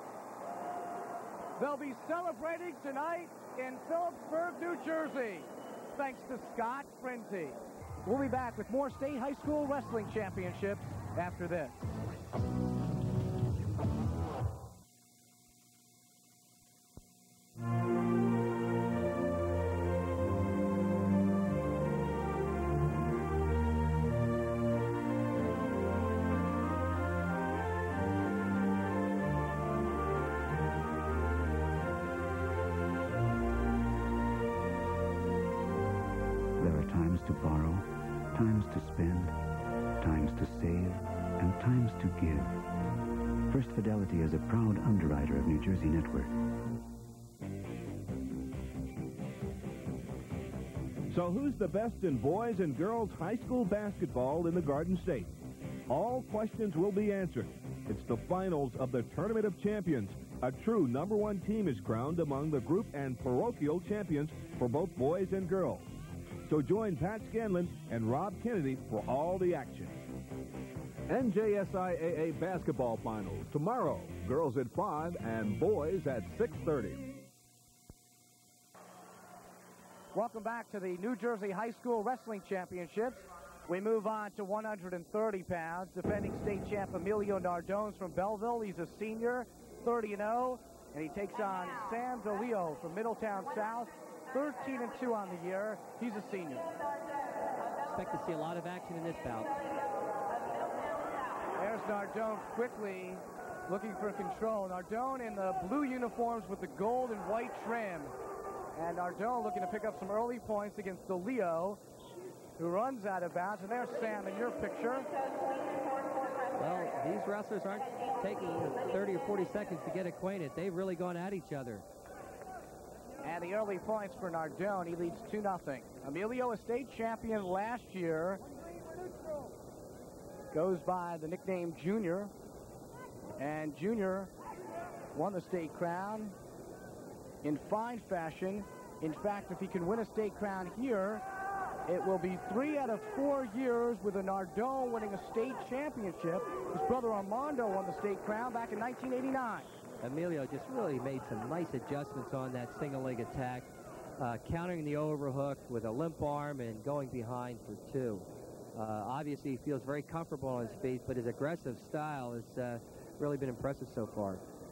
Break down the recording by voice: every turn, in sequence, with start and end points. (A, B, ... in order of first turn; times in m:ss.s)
0:01.6-0:11.8 A
0:36.6-0:39.3 B
0:40.0-0:42.7 B
0:43.5-0:46.3 B
0:51.1-0:55.3 C
0:55.9-1:05.9 C
1:06.4-1:10.0 C
1:11.1-1:17.1 C
1:20.1-1:36.7 A
1:37.9-1:39.5 D
1:41.6-1:48.1 A
1:48.7-1:51.8 A
1:52.6-1:55.1 A
1:56.6-2:01.8 D
2:03.2-2:08.4 A
2:10.5-2:12.3 A
2:13.4-2:14.3 A
2:15.1-2:16.3 A
2:17.4-2:21.2 A
2:21.9-2:29.7 A
2:30.0-2:44.4 D